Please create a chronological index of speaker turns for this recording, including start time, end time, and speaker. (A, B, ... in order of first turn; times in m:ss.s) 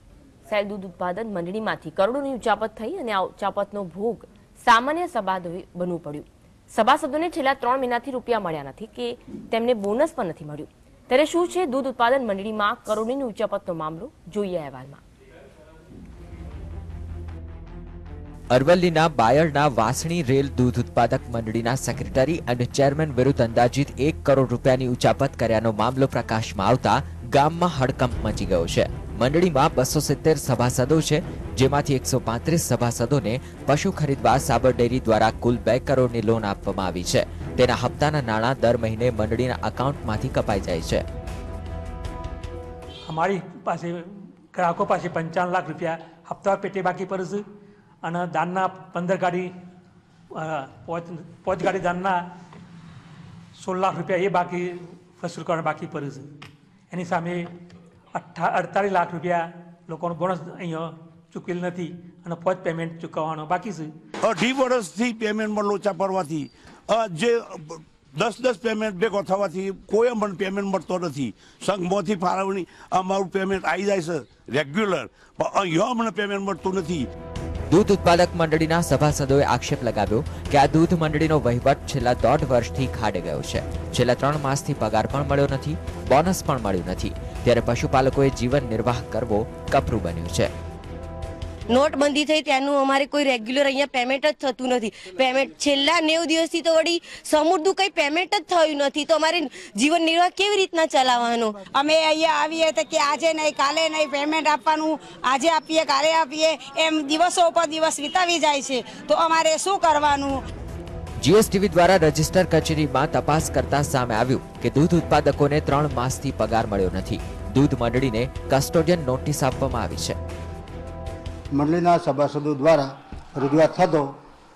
0:00.5-0:15.0 A
0:18.5-0:41.0 B
0:43.1-0:47.4 C
0:48.0-0:49.5 C
0:50.4-0:52.2 C
0:53.6-0:56.3 C
0:56.9-0:57.5 C
0:58.1-1:03.9 C
1:04.2-1:17.0 D
1:17.7-1:30.5 B
1:31.7-1:41.6 E
1:41.7-1:50.4 F
1:51.2-2:00.2 B
2:01.5-2:04.2 G